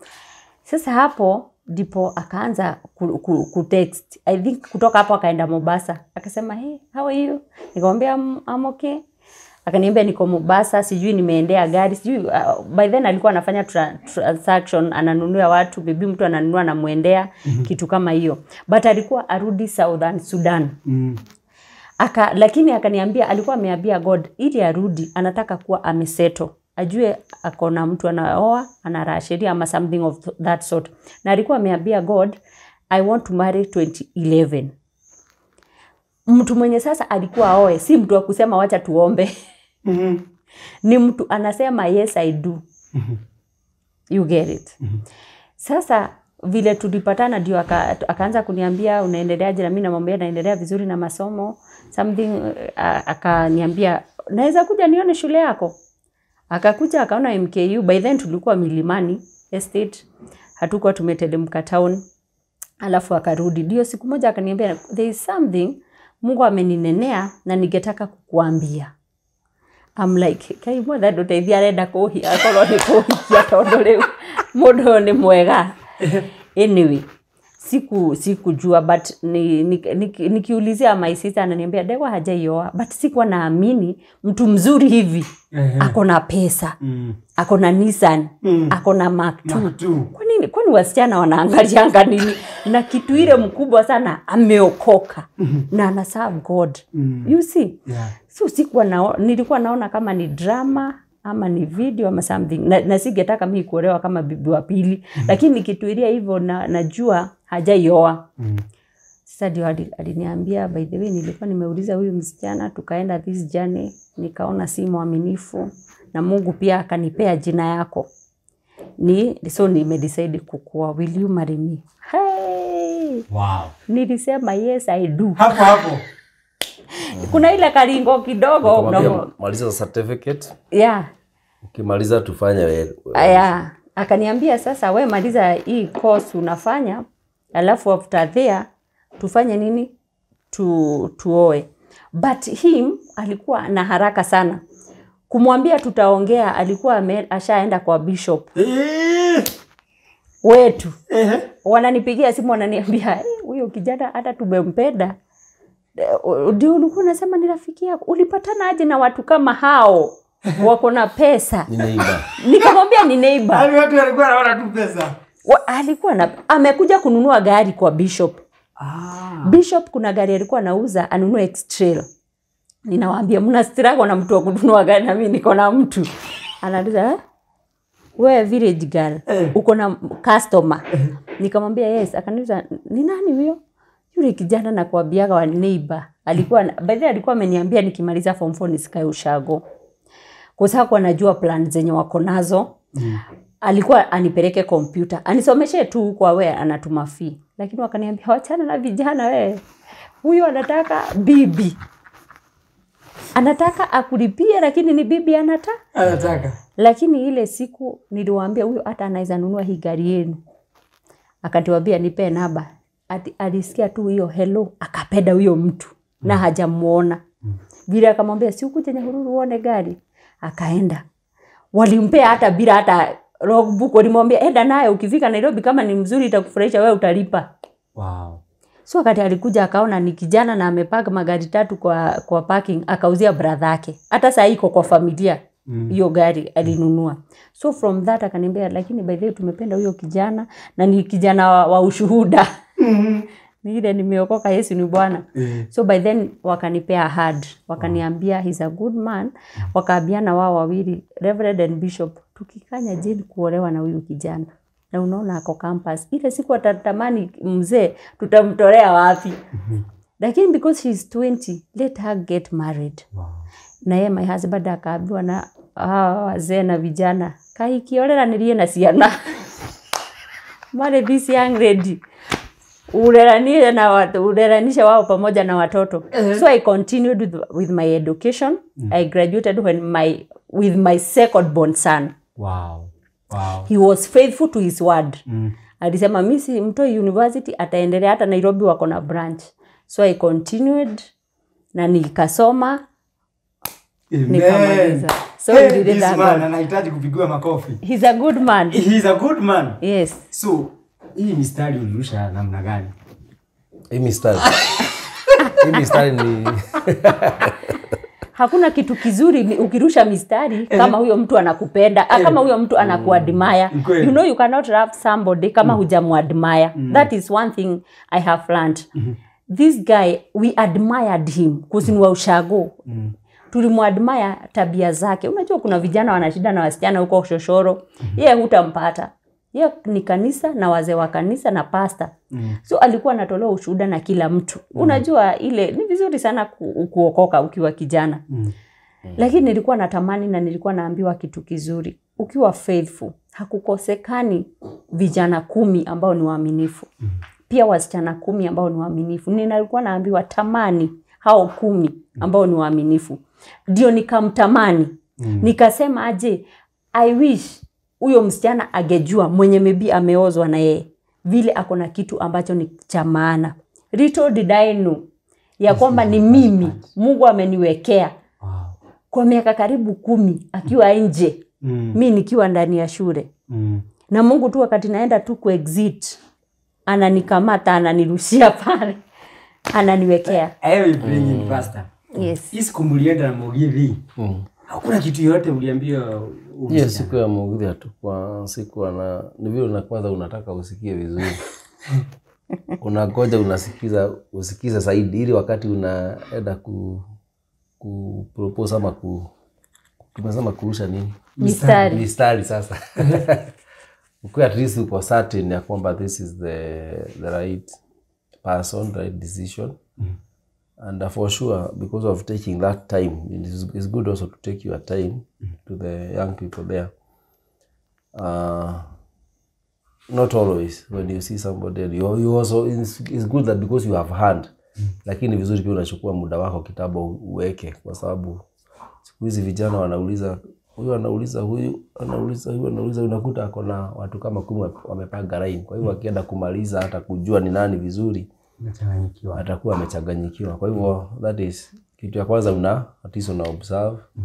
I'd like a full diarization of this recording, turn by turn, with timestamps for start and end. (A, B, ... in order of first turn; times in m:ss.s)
0:00.6-0:09.0 A
0:09.6-0:20.8 A
0:20.8-0:21.2 B
0:22.0-0:32.4 A
0:32.9-0:34.7 A
0:36.3-0:39.3 A
0:39.8-0:40.2 B
0:40.8-0:42.6 A
0:44.1-0:44.8 A
0:45.6-0:55.8 A
0:56.5-1:00.0 A
1:00.6-1:02.0 A
1:02.8-1:08.9 A
1:10.0-1:15.7 A
1:16.5-1:17.1 A
1:17.6-1:26.8 A
1:25.5-1:26.0 B
1:26.8-1:27.2 B
1:27.4-1:48.3 A
1:28.4-1:28.8 B
1:29.4-1:30.1 B
1:36.9-1:37.3 B
1:37.8-1:38.1 B
1:48.4-1:48.6 B
1:49.2-1:58.1 A
1:59.0-2:03.2 A
2:03.3-2:03.8 B
2:03.9-2:05.6 A
2:05.4-2:06.0 B
2:07.0-2:09.3 A
2:07.1-2:07.4 C
2:08.6-2:10.6 C
2:10.7-2:11.1 A
2:11.6-2:13.5 C
2:13.1-2:18.7 A
2:19.2-2:19.9 A
2:20.5-2:24.6 A
2:25.3-2:28.5 A
2:28.6-2:29.5 B
2:30.4-2:31.0 A
2:31.1-2:31.5 B
2:31.6-2:35.2 A
2:36.0-2:41.7 A
2:41.7-2:42.3 C
2:42.4-2:43.7 A
2:43.5-2:45.2 B
2:45.4-2:48.4 A
2:48.8-2:49.6 B
2:49.4-2:52.0 A
2:52.9-2:56.1 A
2:56.6-2:57.2 A
2:58.2-3:00.8 A
3:01.4-3:03.6 A
3:04.1-3:09.6 A
3:10.6-3:12.8 A
3:12.9-3:13.2 B
3:13.6-3:19.6 A
3:20.2-3:21.8 A
3:23.3-3:25.8 A
3:25.9-3:26.6 B
3:26.0-3:26.5 C
3:26.8-3:30.4 A
3:31.4-3:37.2 A
3:37.9-3:41.0 A
3:41.7-3:47.5 A
3:47.9-3:48.4 B
3:48.9-4:02.5 A
3:55.7-3:56.0 B
4:02.8-4:03.2 B
4:03.6-4:19.4 A
4:05.4-4:05.7 B
4:19.5-4:19.8 B
4:20.2-4:23.0 A
4:23.1-4:23.4 B
4:23.8-4:29.4 A
4:30.7-4:32.0 A
4:32.9-4:42.1 A
4:36.1-4:36.4 B
4:42.4-4:43.7 B
4:43.7-4:45.2 A
4:45.3-4:45.5 B
4:45.8-4:51.1 A
4:51.7-4:52.8 A
4:54.1-4:57.8 B
4:54.3-4:56.4 A
4:57.8-4:58.8 A
4:58.7-5:02.9 B
4:59.8-5:00.3 A
5:03.9-5:04.6 C
5:05.5-5:07.8 C
5:08.3-5:18.9 A
5:10.7-5:11.0 B
5:12.1-5:12.4 B
5:13.7-5:14.2 B
5:16.8-5:17.1 B
5:19.5-5:22.8 A
5:22.9-5:23.1 B
5:23.5-5:32.1 A
5:32.3-5:32.6 B
5:32.6-5:38.2 A
5:34.8-5:35.0 B
5:39.2-5:46.9 A
5:47.5-6:05.0 A
5:55.2-5:55.5 B
6:05.6-6:08.1 A
6:05.7-6:06.8 B
6:08.4-6:08.8 B
6:09.1-6:11.4 A
6:11.6-6:12.0 B
6:11.9-6:13.3 A
6:13.5-6:13.8 B
6:14.1-6:16.2 A
6:16.9-6:19.0 A
6:19.7-6:20.5 A
6:20.4-6:24.0 B
6:21.0-6:21.7 C
6:22.1-6:22.5 A
6:24.2-6:24.5 C
6:24.7-6:27.2 B
6:26.7-6:31.4 C
6:32.8-6:37.0 C
6:37.8-6:39.3 C
6:40.1-6:43.5 C
6:41.4-6:42.0 B
6:41.4-6:42.0 A
6:44.2-6:47.8 C
6:48.4-6:49.8 C
6:50.8-6:56.9 C
6:58.1-6:58.9 C
7:00.1-7:04.5 C
7:05.0-7:08.4 C
7:09.0-7:18.3 C
7:18.6-7:19.4 B
7:19.3-7:24.0 C